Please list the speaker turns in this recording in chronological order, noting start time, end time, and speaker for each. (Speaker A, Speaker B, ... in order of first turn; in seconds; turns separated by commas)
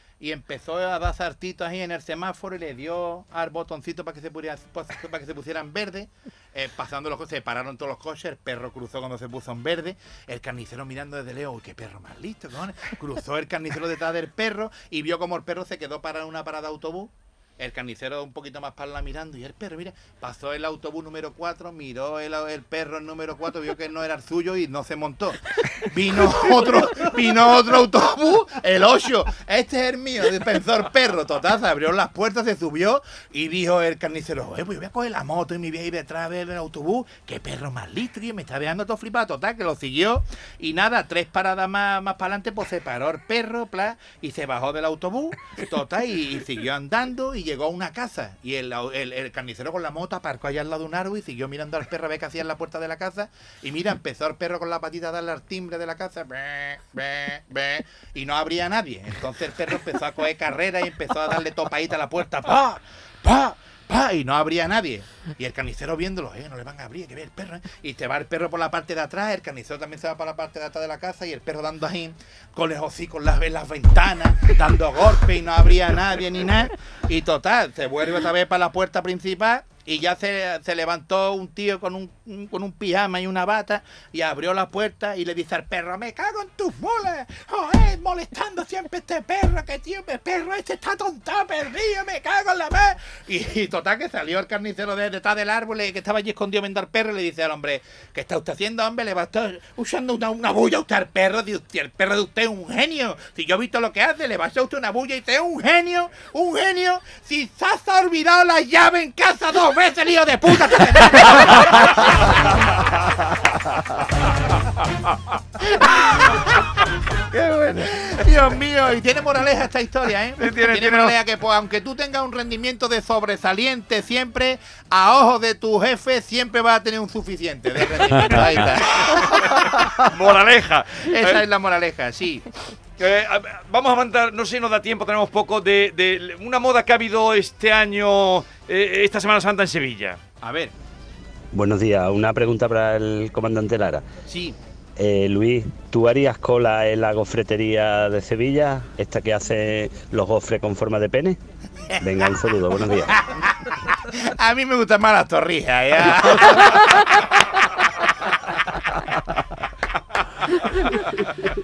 Speaker A: 0.2-112.9, Speaker A: 115.6-116.8, Speaker A: 117.3-129.9, Speaker B: 120.4-121.2, Speaker B: 128.3-131.4, Speaker A: 131.1-132.4, Speaker B: 133.0-140.2, Speaker A: 140.4-140.7, Speaker C: 141.5-144.1, Speaker A: 144.3-144.6, Speaker C: 145.0-151.4, Speaker A: 151.9-152.3, Speaker C: 152.0-153.2, Speaker A: 152.9-158.1, Speaker B: 160.4-161.5